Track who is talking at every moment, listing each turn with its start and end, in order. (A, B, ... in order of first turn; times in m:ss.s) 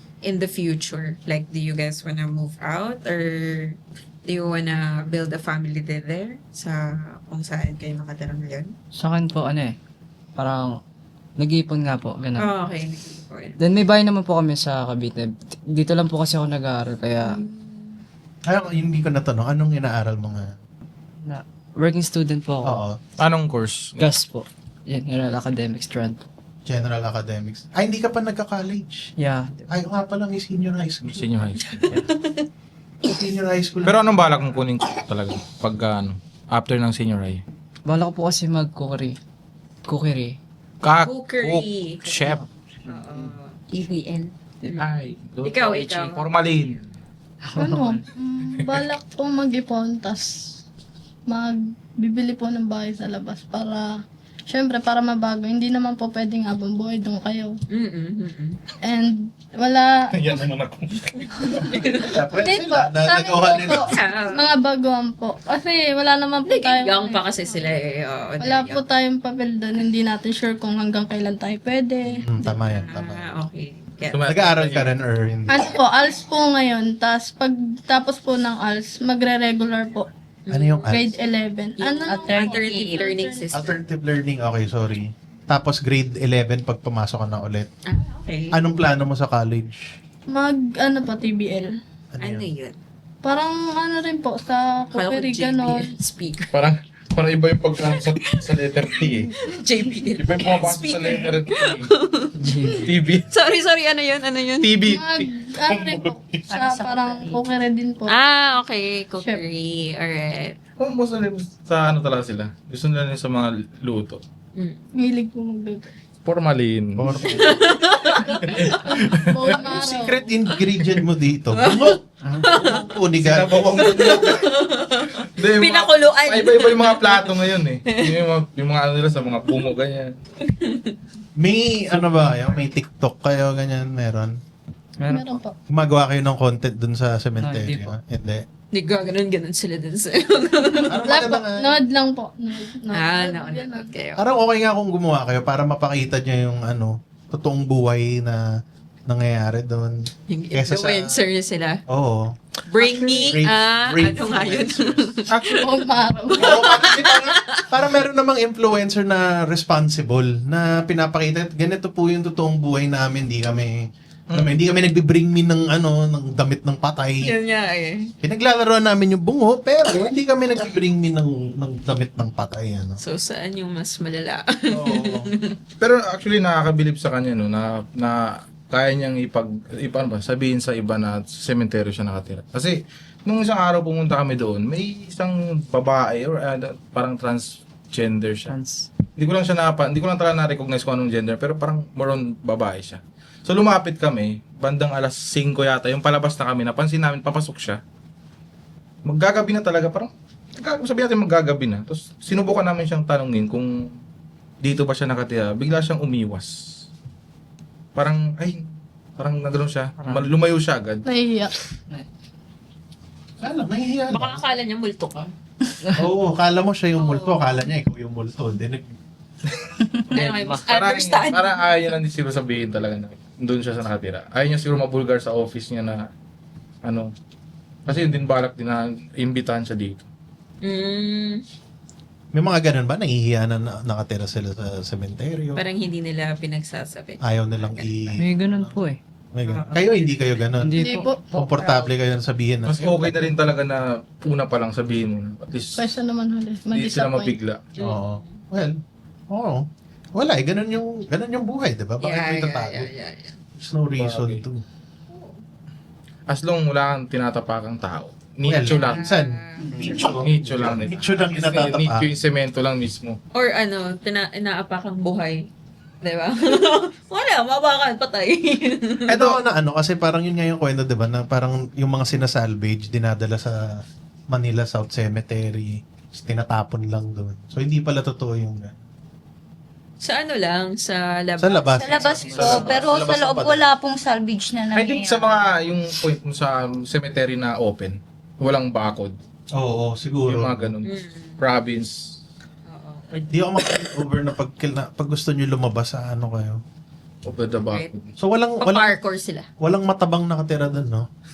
0:00.2-0:08.7 A
0:08.9-0:09.8 B
0:10.4-0:10.8 B
0:11.4-0:12.5 B
0:12.4-0:13.6 A
0:13.6-0:17.4 B
0:17.3-0:18.0 A
0:18.5-0:20.5 C
0:21.2-0:22.8 B
0:22.6-0:23.0 C
0:23.2-0:24.1 D
0:24.0-0:26.2 B
0:26.6-0:29.1 C
0:29.2-0:29.6 B
0:29.7-0:31.3 C
0:31.1-0:32.1 D
0:31.7-0:32.4 A
0:33.0-0:34.0 C
0:33.8-0:37.4 D
0:37.8-0:39.2 B
0:39.8-0:40.4 B
0:40.8-0:42.4 D
0:41.0-0:42.0 A
0:42.2-0:43.3 B
0:42.9-0:43.5 A
0:43.7-0:44.3 E
0:44.8-0:46.8 D
0:45.4-0:46.2 A
0:47.6-0:50.3 F
0:47.6-0:48.0 B
0:48.6-0:48.8 D
0:51.3-0:53.9 F
0:54.5-0:57.5 F
0:57.7-0:58.6 A
0:58.8-1:00.1 F
1:00.1-1:01.8 D
1:01.8-1:02.1 A
1:02.0-1:03.9 C
1:02.4-1:07.7 F
1:03.7-1:04.4 A
1:06.5-1:08.8 A
1:08.4-1:12.5 F
1:12.2-1:13.4 C
1:12.5-1:14.2 A
1:14.1-1:15.0 D
1:14.3-1:15.7 C
1:15.5-1:20.1 F
1:20.5-1:21.0 A
1:20.5-1:21.1 C
1:20.8-1:23.5 F
1:21.8-1:23.7 A
1:22.0-1:23.0 E
1:23.5-1:27.7 C
1:27.9-1:28.6 A
1:28.5-1:29.9 C
1:30.3-1:31.7 F
1:32.1-1:32.5 C
1:32.2-1:32.8 A
1:33.2-1:35.9 F
1:34.9-1:36.5 A
1:36.5-1:39.3 D
1:37.8-1:38.4 A
1:39.5-1:42.3 A
1:40.2-1:41.9 D
1:42.4-1:42.9 B
1:42.8-1:43.3 D
1:43.3-1:44.7 A
1:44.6-1:46.4 D
1:44.8-1:48.2 F
1:46.5-1:47.4 E
1:48.1-1:50.5 A
1:49.2-1:49.4 F
1:50.8-1:54.2 D
1:54.6-1:54.8 A
1:55.0-1:55.9 F
1:56.2-1:57.7 D
1:57.0-1:57.6 C
1:57.3-1:58.4 A
1:58.2-2:00.3 F
1:58.2-1:59.5 D
1:59.5-2:04.2 C
2:01.5-2:02.9 A
2:03.2-2:04.5 D
2:03.8-2:08.1 A
2:05.2-2:10.1 D
2:10.4-2:11.0 A
2:11.4-2:14.3 C
2:15.0-2:15.4 B
2:15.1-2:15.6 F
2:15.7-2:18.4 C
2:17.4-2:18.0 B
2:18.7-2:21.2 A
2:20.7-2:24.0 F
2:20.9-2:21.7 C
2:22.9-2:24.2 A
2:24.2-2:28.4 C
2:29.1-2:30.0 C
2:30.3-2:31.8 A
2:30.5-2:31.2 C
2:31.9-2:32.2 C
2:32.7-2:35.6 A
2:33.2-2:35.1 C
2:35.3-2:35.8 D
2:35.6-2:36.6 F
2:36.3-2:43.8 C
2:36.3-2:37.7 A
2:44.3-2:44.6 D
2:44.3-2:47.3 C
2:47.2-2:48.1 A
2:48.2-2:53.0 C
2:53.0-2:55.5 A
2:54.7-2:55.3 C
2:55.8-3:08.6 D
3:08.5-3:08.9 B
3:09.2-3:17.8 D
3:19.0-3:23.7 D
3:24.6-3:26.5 D
3:27.9-3:28.6 D
3:29.2-3:31.0 D
3:30.0-3:30.3 B
3:31.0-3:31.5 F
3:33.4-3:34.4 C
3:34.1-3:35.3 A
3:36.0-3:38.9 C
3:37.0-3:37.6 A
3:40.1-3:40.6 B
3:40.1-3:41.6 A
3:40.7-3:46.0 D
3:46.8-3:47.1 D
3:47.8-3:50.0 D
3:50.6-3:51.4 A
3:52.3-3:55.6 C
3:55.6-3:57.9 A
3:57.2-3:58.8 C
3:58.2-3:59.0 B
3:59.3-4:03.3 C
3:59.7-4:01.9 B
4:00.8-4:01.3 F
4:02.7-4:05.8 D
4:05.7-4:07.4 F
4:06.7-4:07.6 D
4:07.8-4:08.4 A
4:07.8-4:08.8 C
4:09.3-4:09.6 C
4:10.2-4:12.9 C
4:12.0-4:13.4 A
4:13.6-4:14.6 C
4:13.9-4:14.4 D
4:15.1-4:15.4 A
4:16.3-4:19.1 D
4:18.4-4:22.1 C
4:18.7-4:19.6 A
4:19.6-4:20.1 E
4:20.1-4:23.2 D
4:23.3-4:25.4 A
4:26.0-4:29.4 A
4:29.1-4:33.6 C
4:34.3-4:38.7 C
4:40.0-4:42.8 A
4:41.4-4:43.7 C
4:41.8-4:45.4 E
4:42.0-4:43.0 D
4:44.7-4:49.1 D
4:49.6-4:50.7 C
4:50.3-4:51.9 D
4:50.9-4:51.4 A
4:52.7-4:53.3 A
4:53.3-4:56.6 C
4:57.2-4:58.1 D
4:58.2-4:59.0 C
4:58.6-4:59.5 A
4:59.6-5:01.0 C